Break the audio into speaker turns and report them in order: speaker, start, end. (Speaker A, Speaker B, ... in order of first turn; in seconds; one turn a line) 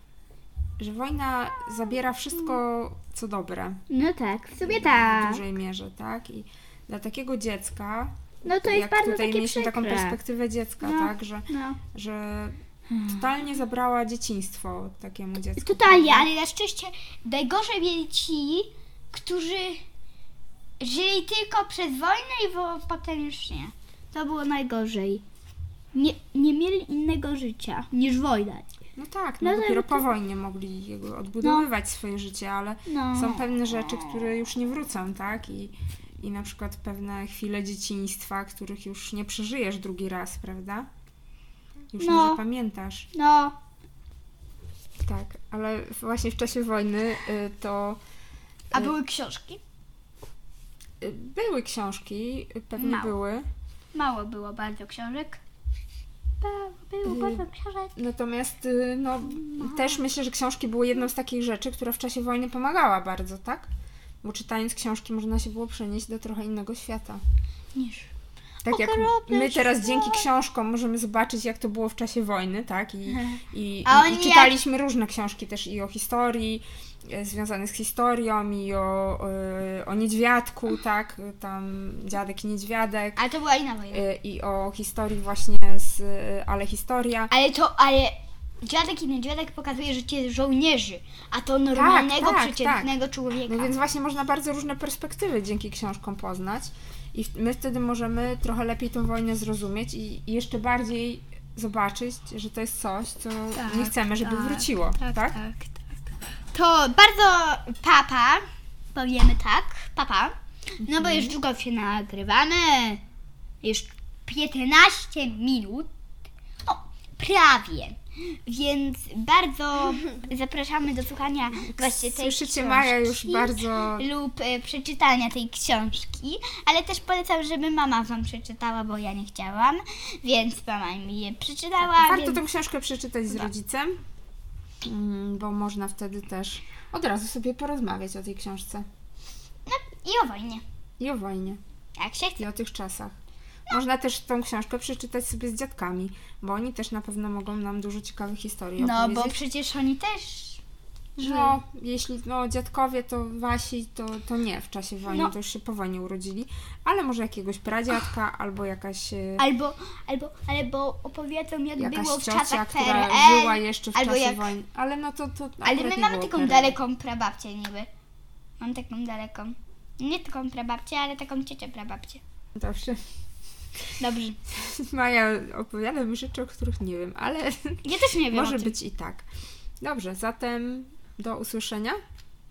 Speaker A: 0.8-3.8
Speaker B: 1.6-2.5
Speaker B: 3.9-5.4
Speaker A: 4.6-16.3
Speaker B: 8.4-10.2
Speaker B: 10.8-11.8
Speaker B: 12.9-13.2
Speaker B: 15.6-19.8
Speaker B: 20.8-25.2
Speaker B: 25.9-28.7
Speaker A: 28.9-40.9
Speaker B: 29.4-30.1
Speaker B: 31.4-31.7
Speaker B: 32.9-34.3
Speaker A: 41.9-43.1
Speaker B: 42.0-42.4
Speaker B: 43.1-43.5
Speaker A: 45.0-48.0
Speaker B: 48.7-49.6
Speaker A: 51.0-53.5
Speaker B: 52.8-53.1
Speaker B: 53.9-55.4
Speaker B: 56.4-57.9
Speaker A: 57.0-63.7
Speaker B: 59.3-60.0
Speaker A: 64.2-67.2
Speaker B: 67.7-68.1
Speaker A: 68.6-83.2
Speaker B: 68.7-70.3
Speaker B: 73.8-74.6
Speaker B: 83.2-84.0
Speaker A: 83.9-87.3
Speaker B: 87.3-93.7
Speaker A: 91.7-92.9
Speaker A: 93.5-105.4
Speaker B: 103.5-108.4
Speaker B: 108.9-113.0
Speaker A: 110.8-111.4
Speaker B: 113.6-115.9
Speaker B: 116.6-132.4
Speaker A: 121.7-124.1
Speaker A: 131.8-134.0
Speaker A: 134.8-138.8
Speaker B: 139.7-140.6
Speaker A: 141.0-141.6
Speaker B: 142.0-142.4
Speaker A: 142.4-143.1
Speaker A: 143.7-149.4
Speaker B: 148.8-150.6
Speaker A: 151.2-159.4
Speaker B: 151.2-151.6
Speaker B: 155.1-155.3
Speaker B: 159.4-164.5
Speaker A: 161.8-166.8
Speaker B: 165.6-167.9
Speaker B: 168.6-172.2
Speaker A: 172.6-173.0
Speaker B: 174.0-174.4
Speaker A: 174.5-179.2
Speaker B: 177.8-178.8
Speaker A: 179.8-182.0